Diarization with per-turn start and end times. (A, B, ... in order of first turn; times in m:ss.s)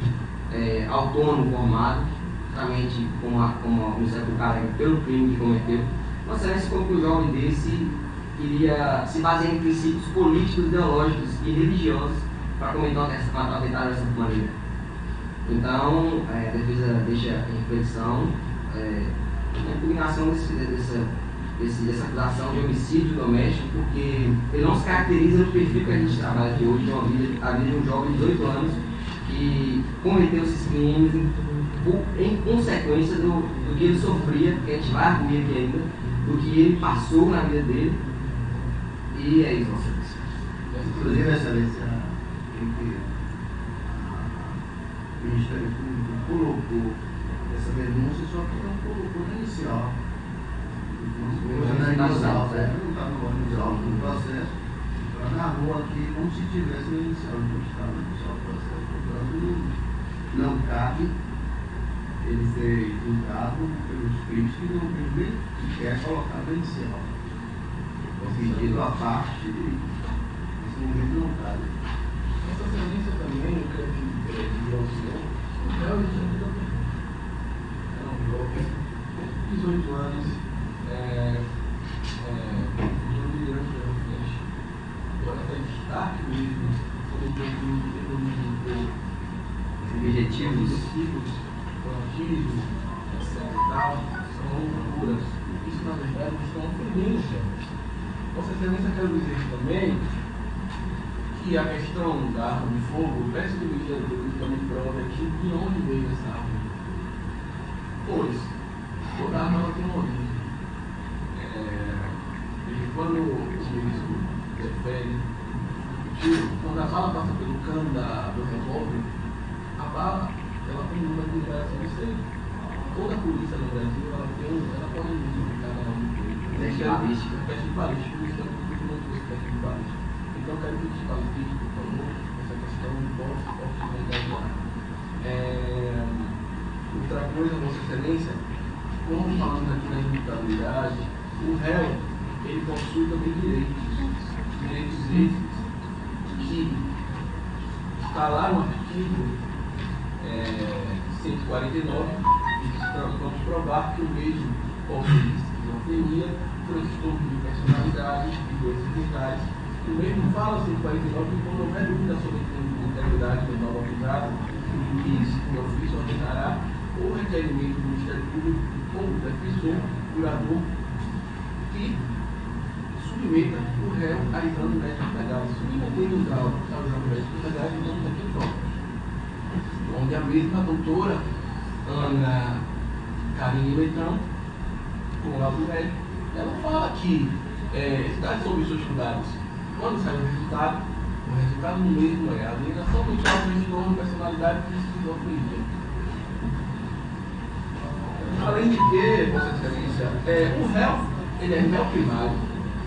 0:00.5-0:14.6 A
0:15.4-0:38.0 A
0:39.1-0:40.2 A
0:40.7-0:41.4 B
0:40.8-0:43.1 C
0:43.9-0:44.6 C
0:45.2-0:50.0 C
0:50.9-0:54.5 C
0:51.3-0:52.7 A
0:53.4-0:54.2 A
0:55.1-0:59.8 C
1:00.3-1:01.2 C
1:02.2-1:07.1 C
1:08.2-1:09.9 C
1:08.2-1:09.0 B
1:10.6-1:11.7 C
1:12.4-1:16.8 B
1:17.9-1:21.4 B
1:22.2-1:24.4 B
1:25.2-1:28.9 B
1:29.9-1:30.8 A
1:29.9-1:37.6 B
1:38.3-1:40.1 B
1:41.3-1:46.7 B
1:48.0-1:48.6 B
1:49.1-1:50.4 B
1:51.3-1:55.2 B
1:56.1-1:59.1 B
1:59.8-2:02.2 B
2:02.9-2:14.6 B
2:06.5-2:07.4 A
2:15.2-2:16.3 B
2:16.9-2:18.4 B
2:19.0-2:25.7 B
2:26.3-2:26.8 B
2:28.0-2:29.4 B
2:30.2-2:50.7 B
2:51.7-2:52.0 B
2:53.0-2:58.7 B
2:59.9-3:01.3 B
3:01.8-3:02.6 B
3:03.3-3:04.2 B
3:05.2-3:15.7 B
3:18.2-3:22.4 B